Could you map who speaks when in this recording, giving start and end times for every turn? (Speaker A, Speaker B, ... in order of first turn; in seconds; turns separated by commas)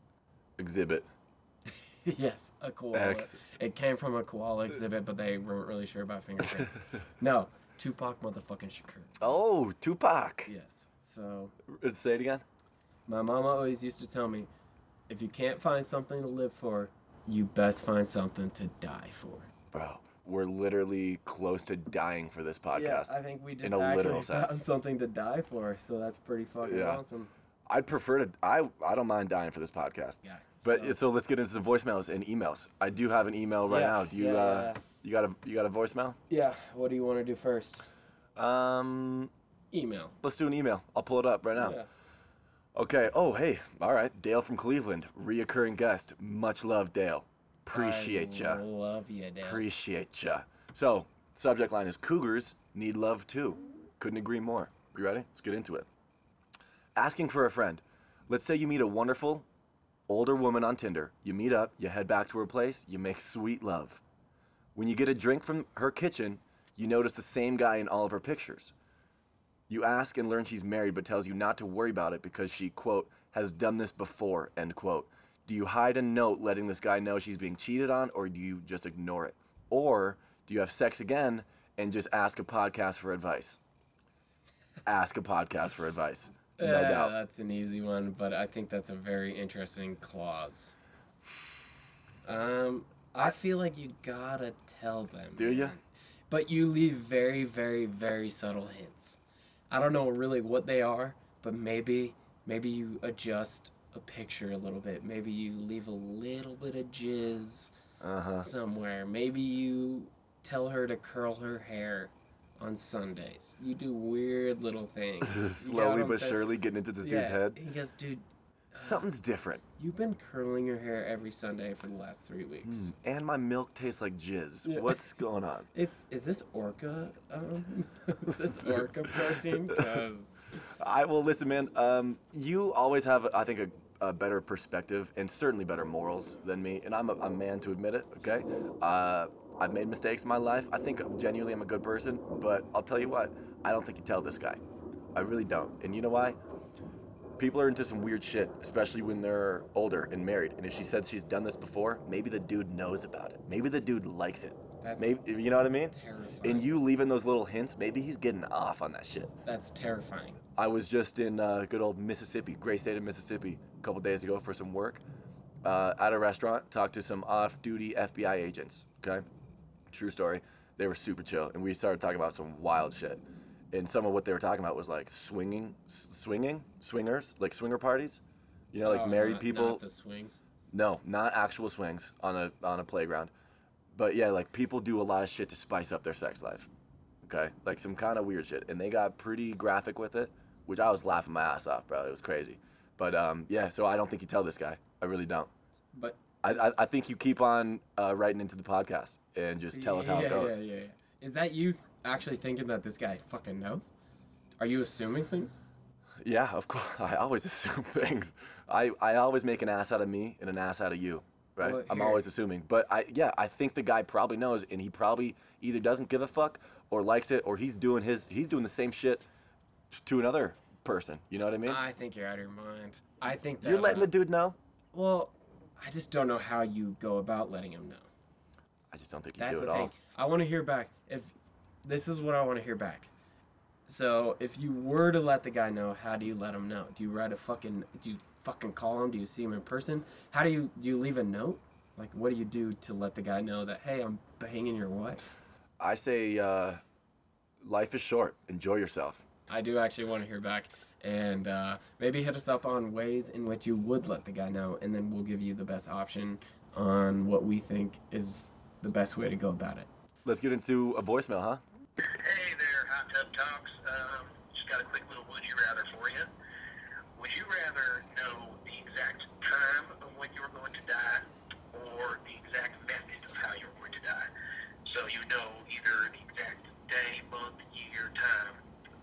Speaker A: 0.6-1.1, Speaker B: 1.7-9.4, Speaker A: 2.9-3.4, Speaker A: 9.2-10.5, Speaker B: 10.5-11.5, Speaker A: 11.7-12.4, Speaker B: 13.1-14.5, Speaker B: 15.1-19.5, Speaker A: 19.7-24.6, Speaker B: 22.7-27.3, Speaker A: 26.6-27.0, Speaker A: 27.7-36.2, Speaker B: 30.2-31.0, Speaker B: 33.7-34.8, Speaker B: 36.3-37.9, Speaker A: 38.4-39.3, Speaker B: 39.7-40.1, Speaker A: 40.2-41.8, Speaker B: 41.6-41.9, Speaker A: 42.8-48.6, Speaker B: 47.7-49.6, Speaker A: 49.4-55.9, Speaker A: 57.0-59.5, Speaker A: 60.1-64.0, Speaker A: 64.8-68.7, Speaker A: 69.7-83.6, Speaker A: 84.9-87.1, Speaker B: 86.6-90.8, Speaker B: 92.2-99.2, Speaker A: 95.4-95.8, Speaker B: 99.7-107.7, Speaker A: 108.0-108.5, Speaker B: 108.4-116.4, Speaker A: 115.2-117.6, Speaker B: 117.0-119.1, Speaker A: 118.8-119.6, Speaker B: 119.8-122.9, Speaker A: 122.6-125.7, Speaker B: 124.7-125.1, Speaker B: 125.7-130.6, Speaker A: 129.7-130.0, Speaker A: 130.8-144.6, Speaker A: 145.1-146.4, Speaker A: 147.4-159.3, Speaker B: 154.8-155.2, Speaker B: 155.8-156.7, Speaker B: 159.4-160.4, Speaker A: 160.6-165.0, Speaker A: 165.6-169.2, Speaker A: 169.9-178.2, Speaker A: 178.7-179.8, Speaker B: 178.8-180.4, Speaker A: 180.7-183.3, Speaker A: 183.9-186.7, Speaker A: 187.2-195.5, Speaker B: 195.9-196.6, Speaker A: 196.4-200.6, Speaker B: 199.7-203.9, Speaker B: 204.6-205.6, Speaker A: 206.2-219.2, Speaker B: 211.6-212.3, Speaker A: 219.9-221.8, Speaker B: 221.7-224.1, Speaker A: 223.6-224.6, Speaker B: 224.9-228.1, Speaker A: 228.9-229.9, Speaker B: 229.4-231.3, Speaker B: 231.8-233.1, Speaker B: 233.9-245.3, Speaker A: 245.8-246.8, Speaker A: 247.6-249.2, Speaker B: 249.5-259.9, Speaker A: 260.2-261.6, Speaker C: 262.1-266.3, Speaker C: 267.2-274.3, Speaker C: 274.9-278.6